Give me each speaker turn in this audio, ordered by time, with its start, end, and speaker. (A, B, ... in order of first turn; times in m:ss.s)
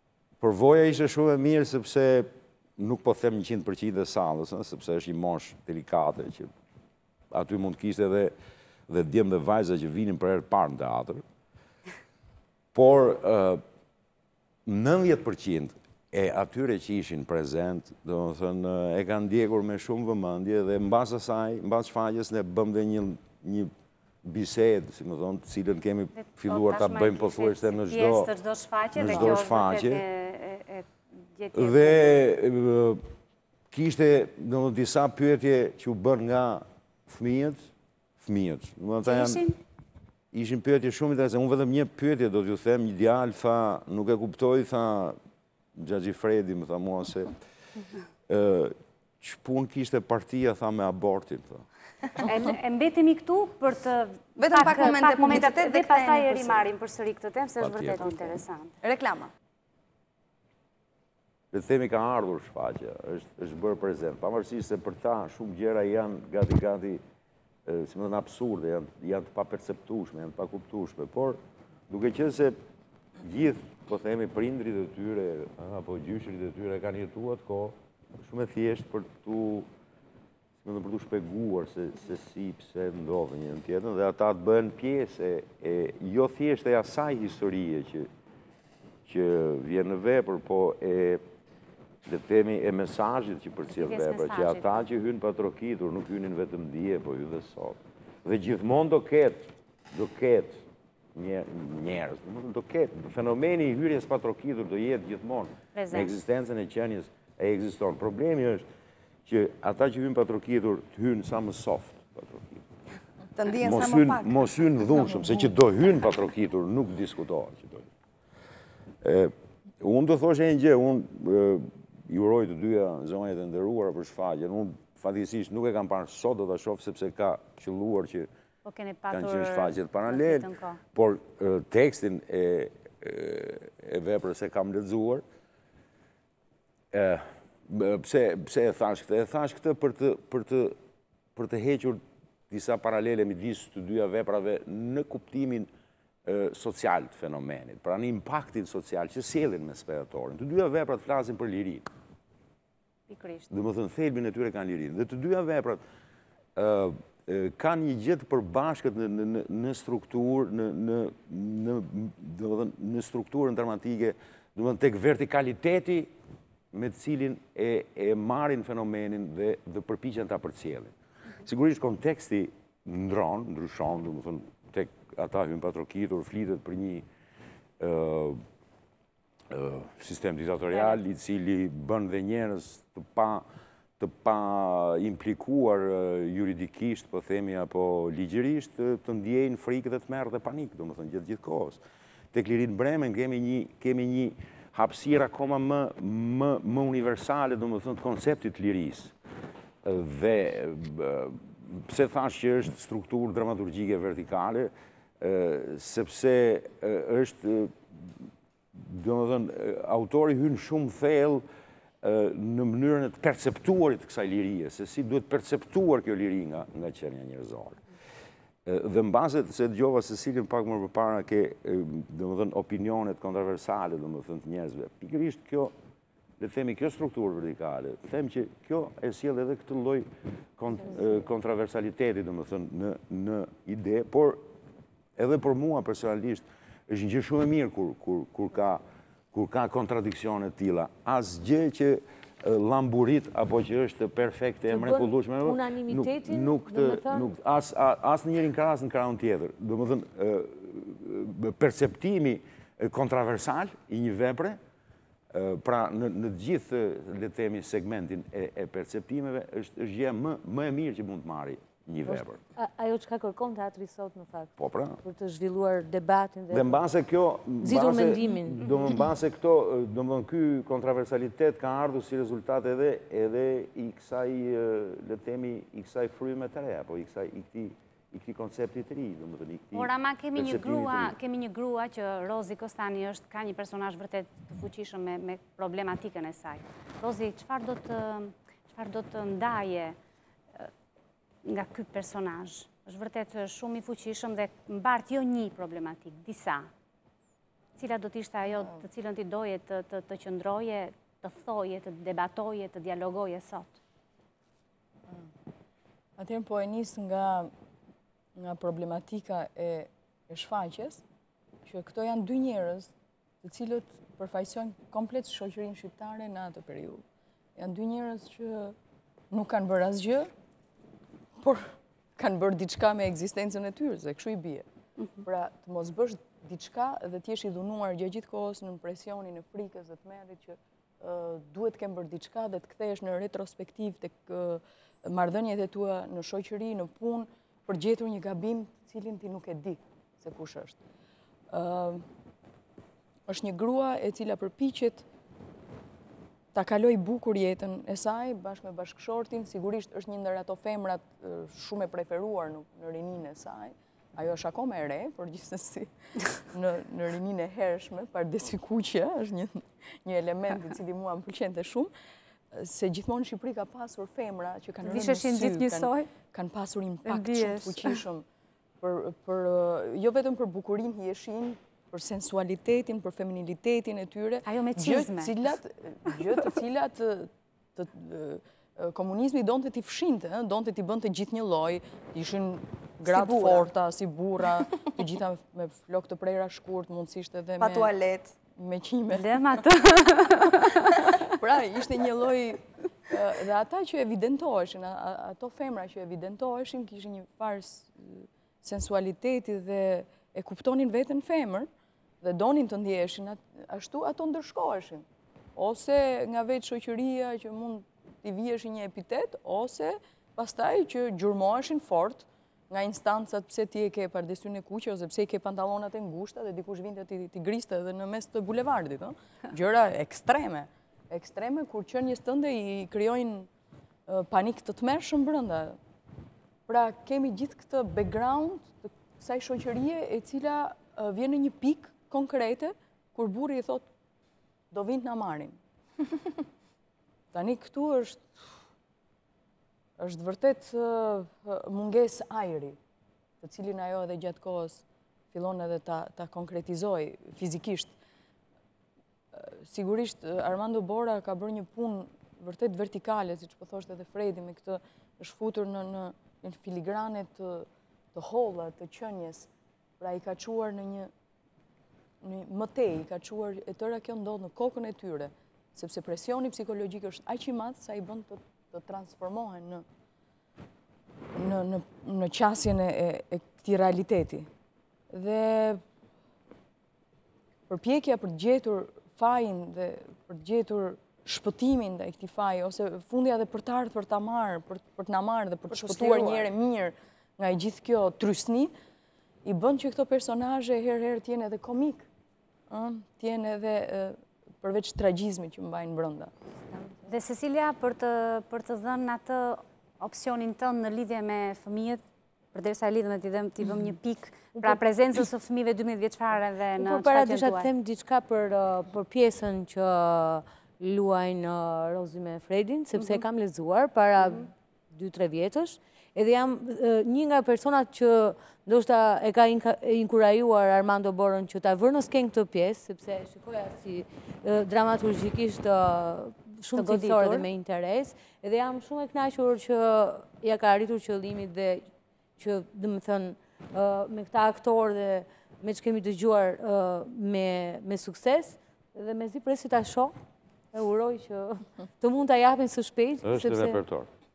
0:00.4-0:06.5 A
0:07.3-0:08.3 A
0:08.9-0:11.2 A
0:12.7-0:13.6 A
0:14.6-0:23.7 A
0:24.2-0:28.3 A
0:26.1-0:32.1 B
0:28.9-0:30.0 A
0:31.5-0:33.0 A
0:33.7-0:39.5 A
0:39.0-0:39.6 B
0:40.3-0:45.2 A
0:45.8-0:47.4 A
0:48.3-0:51.6 A
0:52.2-0:58.7 B
0:54.4-0:56.7 C
0:57.6-0:58.4 A
0:58.8-0:59.3 C
1:01.5-1:07.0 A
1:07.6-1:12.6 A
1:13.2-1:19.7 A
1:20.6-1:28.1 A
1:29.0-1:31.2 A
1:32.0-1:40.6 A
1:33.7-1:34.8 B
1:41.1-1:48.6 A
1:45.7-1:46.1 B
1:49.2-1:52.6 A
1:53.4-1:54.4 C
1:53.6-1:57.9 A
1:59.0-2:08.3 A
2:08.6-2:10.8 B
2:09.1-2:15.2 A
2:16.9-2:20.8 A
2:21.4-2:25.7 A
2:26.2-2:31.9 A
2:33.1-2:33.4 B
2:33.5-2:35.8 A
2:36.6-2:46.1 A
2:46.7-2:57.0 A
2:57.8-2:58.4 A
2:59.5-3:03.4 A
3:04.0-3:11.8 A
3:12.3-3:19.1 A
3:19.8-3:28.1 A
3:28.7-3:31.4 A
3:32.0-3:37.8 A
3:38.6-3:45.7 A
3:46.4-3:54.4 A
3:55.2-4:14.6 A
4:04.7-4:07.3 D
4:15.3-4:22.4 A
4:22.0-4:26.8 D
4:24.6-4:25.0 A
4:26.5-4:41.1 A
4:27.6-4:28.7 D
4:39.7-4:50.0 B
4:51.4-4:56.7 B
4:57.8-5:03.8 B
5:06.2-5:07.5 E
5:08.4-5:11.0 E
5:11.6-5:12.9 E
5:13.4-5:17.0 E
5:17.6-5:18.7 E
5:19.3-5:20.3 E
5:21.4-5:24.6 E
5:25.2-5:40.8 E
5:41.5-5:42.1 E
5:43.3-5:45.0 E
5:46.5-5:55.9 E
5:56.5-6:01.9 E
6:02.5-6:08.2 E
6:04.8-6:06.1 B
6:07.0-6:08.0 B
6:08.8-6:27.9 E
6:14.4-6:15.4 B
6:23.1-6:23.7 C
6:27.6-6:28.3 C
6:28.5-6:29.3 E
6:29.1-6:31.3 B
6:31.4-6:41.7 E
6:42.2-6:45.0 E
6:45.6-7:03.5 E
7:04.1-7:05.8 E
7:06.7-7:13.9 E
7:14.7-7:15.6 E
7:17.3-7:18.3 E
7:20.0-7:22.8 E
7:23.4-7:27.9 E
7:29.3-7:39.5 E
7:40.0-7:41.1 E
7:42.2-7:49.8 E
7:51.3-7:54.5 E
7:55.1-7:55.8 E
7:57.7-8:08.7 E
8:05.7-8:06.5 C
8:09.4-8:12.1 E
8:12.7-8:16.3 E
8:17.0-8:22.0 B
8:22.5-8:27.7 B
8:24.5-8:24.8 D
8:26.8-9:00.1 D
8:32.9-8:33.2 B
8:34.2-8:34.5 B
8:46.7-8:47.5 B
9:00.7-9:03.8 D
9:03.2-9:04.1 A